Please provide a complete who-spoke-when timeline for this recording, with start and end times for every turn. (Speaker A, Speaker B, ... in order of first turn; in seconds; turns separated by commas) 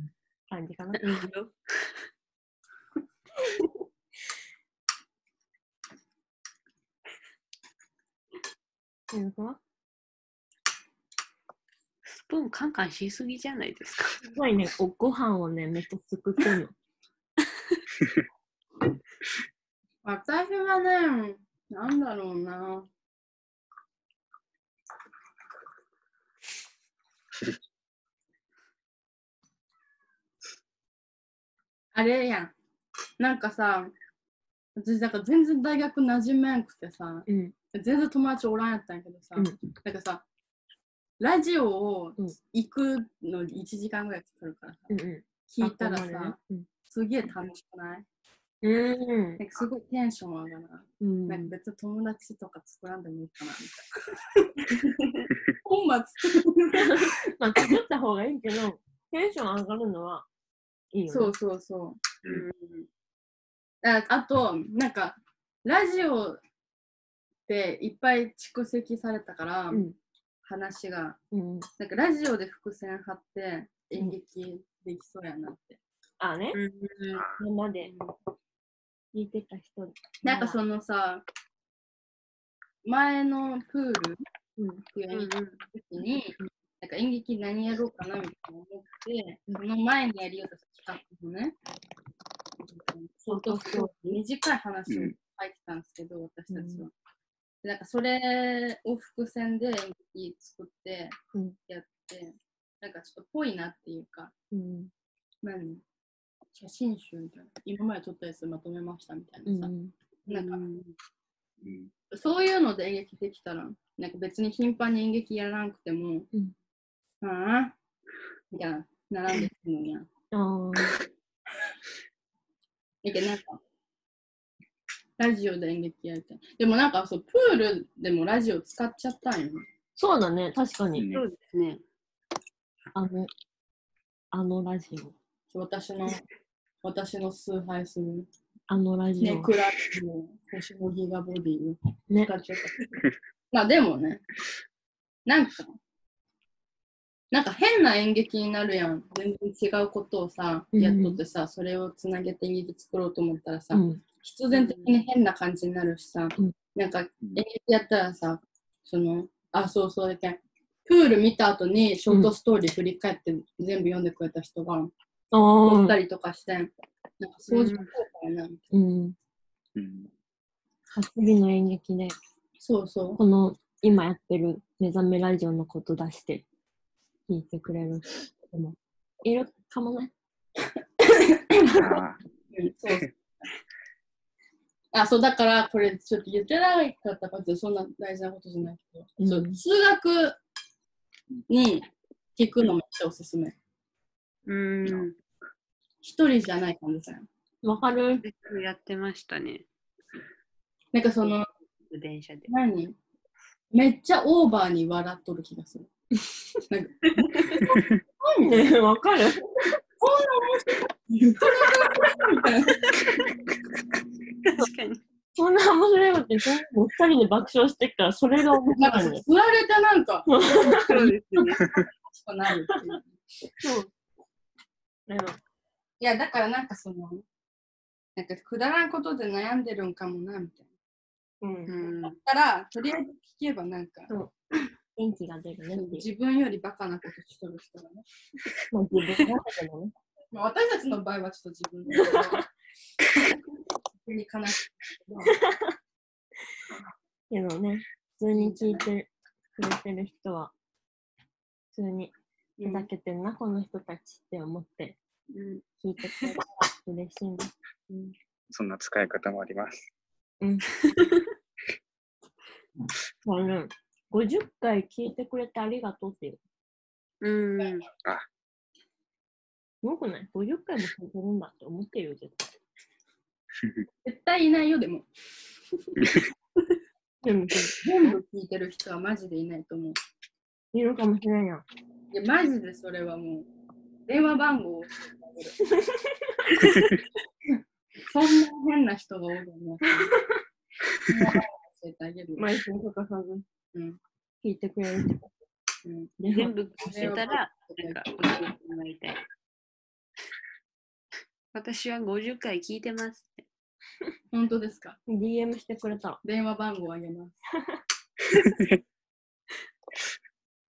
Speaker A: 0.5-1.1, Speaker B: 1.0-1.5, Speaker A: 9.1-9.6, Speaker B: 12.1-14.2, Speaker A: 14.2-16.7, Speaker C: 20.0-22.9, Speaker C: 31.9-32.5, Speaker C: 33.2-33.9, Speaker C: 34.8-40.2, Speaker A: 37.3-37.5, Speaker C: 41.2-44.9, Speaker A: 44.9-46.7, Speaker C: 45.5-46.4, Speaker C: 46.9-48.0, Speaker A: 48.6-49.4, Speaker C: 49.4-57.2, Speaker A: 51.0-51.5, Speaker A: 56.8-60.3, Speaker A: 60.9-61.4, Speaker C: 61.1-62.0, Speaker B: 62.3-62.9, Speaker C: 63.8-66.4, Speaker C: 67.5-69.8, Speaker A: 69.7-70.0, Speaker C: 70.5-71.2, Speaker A: 71.3-71.7, Speaker C: 71.8-75.8, Speaker A: 76.2-76.6, Speaker B: 76.5-77.3, Speaker A: 77.3-77.9, Speaker C: 77.8-78.2, Speaker A: 79.1-80.6, Speaker C: 80.2-81.2, Speaker C: 82.8-84.2, Speaker A: 84.6-84.8, Speaker C: 84.9-91.5, Speaker B: 85.1-85.6, Speaker C: 92.6-96.9, Speaker A: 93.3-94.2, Speaker D: 94.9-95.1, Speaker A: 96.5-96.8, Speaker C: 97.6-104.3, Speaker A: 104.5-104.9, Speaker C: 105.4-105.8, Speaker C: 106.5-109.7, Speaker A: 109.5-109.9, Speaker B: 110.3-110.9, Speaker C: 110.3-110.7, Speaker D: 111.6-111.9, Speaker C: 112.1-116.3, Speaker C: 117.2-117.8, Speaker C: 118.5-120.1, Speaker A: 120.3-121.0, Speaker C: 123.0-123.6, Speaker C: 125.2-129.7, Speaker A: 130.0-131.1, Speaker D: 130.9-131.2, Speaker B: 131.1-131.8, Speaker A: 132.9-133.3, Speaker A: 134.3-135.2, Speaker C: 135.5-136.2, Speaker C: 136.8-138.3, Speaker A: 138.7-139.5, Speaker C: 139.2-143.0, Speaker A: 142.1-142.3, Speaker C: 143.5-144.2, Speaker C: 145.3-145.8, Speaker C: 147.3-164.9, Speaker A: 150.7-151.2, Speaker A: 153.7-154.0, Speaker B: 154.5-154.9, Speaker A: 165.3-166.0, Speaker C: 165.6-168.6, Speaker B: 167.5-167.9, Speaker A: 168.7-169.2, Speaker D: 169.8-170.1, Speaker A: 170.9-172.2, Speaker C: 172.6-173.2, Speaker A: 173.2-176.4, Speaker A: 177.3-180.1, Speaker C: 181.0-181.9, Speaker D: 181.7-182.2, Speaker C: 182.5-183.0, Speaker C: 184.9-190.4, Speaker A: 189.2-189.6, Speaker C: 191.5-193.6, Speaker B: 194.5-195.2, Speaker C: 196.0-197.3, Speaker A: 197.6-198.2, Speaker B: 198.2-199.7, Speaker C: 200.9-201.4, Speaker B: 201.9-202.5, Speaker C: 202.5-203.0, Speaker C: 203.7-205.9, Speaker C: 206.7-208.7, Speaker B: 207.2-207.6, Speaker A: 208.4-209.8, Speaker C: 210.0-212.9, Speaker B: 212.9-213.2, Speaker B: 214.4-215.0, Speaker A: 215.3-219.2, Speaker C: 218.8-220.3, Speaker A: 220.3-221.1, Speaker B: 220.4-221.8, Speaker C: 221.6-223.1, Speaker A: 223.6-223.9, Speaker A: 225.1-225.4, Speaker C: 226.0-227.2, Speaker C: 228.2-230.6, Speaker A: 231.4-231.7, Speaker B: 231.7-232.2, Speaker C: 232.1-234.1, Speaker A: 235.0-236.1, Speaker C: 235.7-238.1, Speaker A: 238.7-239.9, Speaker C: 240.3-242.4, Speaker A: 241.9-242.4, Speaker C: 244.0-245.4, Speaker A: 245.3-245.7, Speaker A: 247.3-250.5, Speaker C: 248.3-248.9, Speaker A: 251.7-252.1, Speaker C: 252.6-252.9, Speaker A: 252.6-255.0, Speaker B: 255.3-255.6, Speaker A: 255.8-257.5, Speaker D: 258.5-259.9, Speaker A: 260.4-260.8, Speaker B: 260.9-261.3, Speaker A: 263.2-266.4, Speaker B: 267.2-267.9, Speaker A: 269.8-272.5, Speaker C: 274.0-275.1, Speaker A: 277.2-278.2, Speaker C: 277.8-280.0, Speaker A: 280.7-281.6, Speaker C: 282.1-283.5, Speaker C: 284.1-285.6, Speaker A: 285.7-286.5, Speaker B: 286.6-287.0, Speaker C: 287.5-290.2, Speaker A: 290.0-290.4, Speaker C: 291.1-292.5, Speaker A: 292.4-293.4, Speaker C: 293.7-294.0, Speaker A: 294.4-295.3, Speaker C: 295.9-296.1, Speaker A: 296.2-297.1, Speaker B: 296.3-299.2, Speaker C: 296.8-298.5, Speaker B: 301.5-303.4, Speaker C: 304.3-305.0, Speaker A: 305.1-306.2, Speaker C: 306.2-307.4, Speaker D: 308.4-308.8